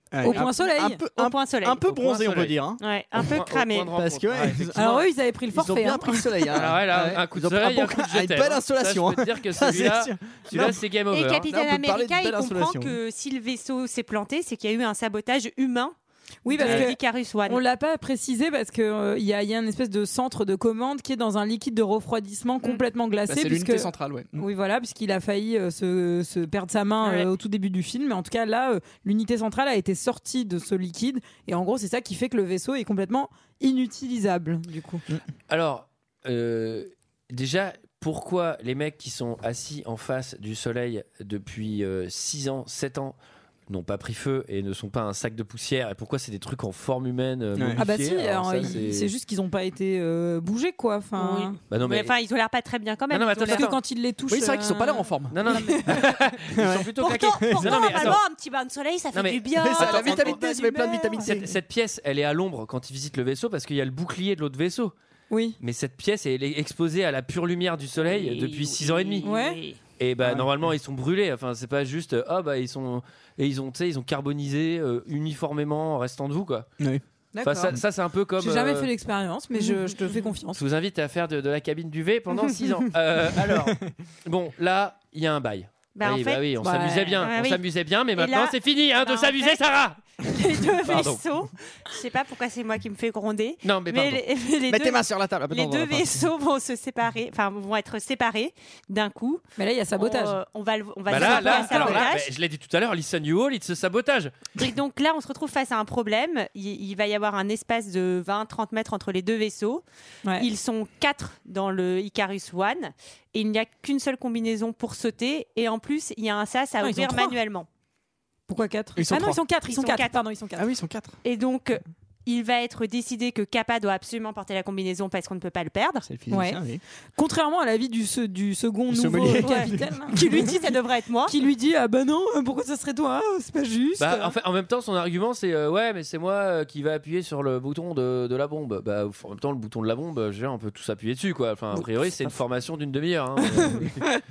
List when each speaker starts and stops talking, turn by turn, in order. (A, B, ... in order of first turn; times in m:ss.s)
0:00.1-0:02.8 A
0:00.2-0:01.0 B
0:01.2-0:01.8 C
0:01.9-0:02.6 D
0:02.8-0:03.9 C
0:03.2-0:05.0 D
0:03.9-0:04.9 A
0:04.8-0:06.6 B
0:05.5-0:10.8 A
0:06.5-0:11.5 D
0:11.1-0:16.0 C
0:11.4-0:13.0 A
0:16.4-0:35.0 B
0:16.5-0:17.6 C
0:23.3-0:24.5 A
0:27.0-0:27.3 C
0:35.5-0:43.2 D
0:43.7-0:49.1 D
0:47.6-0:47.8 A
0:47.8-0:51.6 B
0:51.2-0:53.7 C
0:51.7-0:52.1 D
0:53.1-0:53.8 D
0:53.5-0:56.2 B
0:54.3-0:56.0 A
0:55.3-0:58.2 D
0:56.5-0:58.2 A
0:57.0-1:01.2 C
0:59.1-1:00.4 D
0:59.6-1:01.6 A
1:01.2-1:04.9 D
1:05.3-1:05.6 B
1:05.6-1:09.3 D
1:08.0-1:09.8 C
1:09.2-1:09.6 B
1:10.0-1:16.7 D
1:10.2-1:10.6 A
1:17.3-1:17.8 B
1:17.4-1:18.9 D
1:18.4-1:20.6 B
1:20.6-1:30.0 D
1:26.0-1:26.5 C
1:26.6-1:27.2 B
1:27.2-1:27.6 C
1:28.2-1:29.6 C
1:30.2-1:39.4 C
1:30.8-1:31.2 D
1:33.6-1:34.2 D
1:34.7-1:36.3 A
1:39.6-1:40.4 B
1:40.0-1:42.3 C
1:41.1-1:44.4 D
1:41.2-1:42.0 B
1:44.6-1:49.8 C
1:50.4-1:57.7 C
1:56.8-1:57.4 B
1:58.5-2:00.7 B
1:59.0-1:59.4 A
1:59.1-2:00.2 C
2:00.6-2:01.1 A
2:01.2-2:06.1 C
2:06.1-2:06.8 A
2:06.3-2:06.6 B
2:07.2-2:10.6 B
2:08.9-2:10.5 A
2:09.4-2:11.4 C
2:11.3-2:14.4 B
2:14.0-2:24.0 D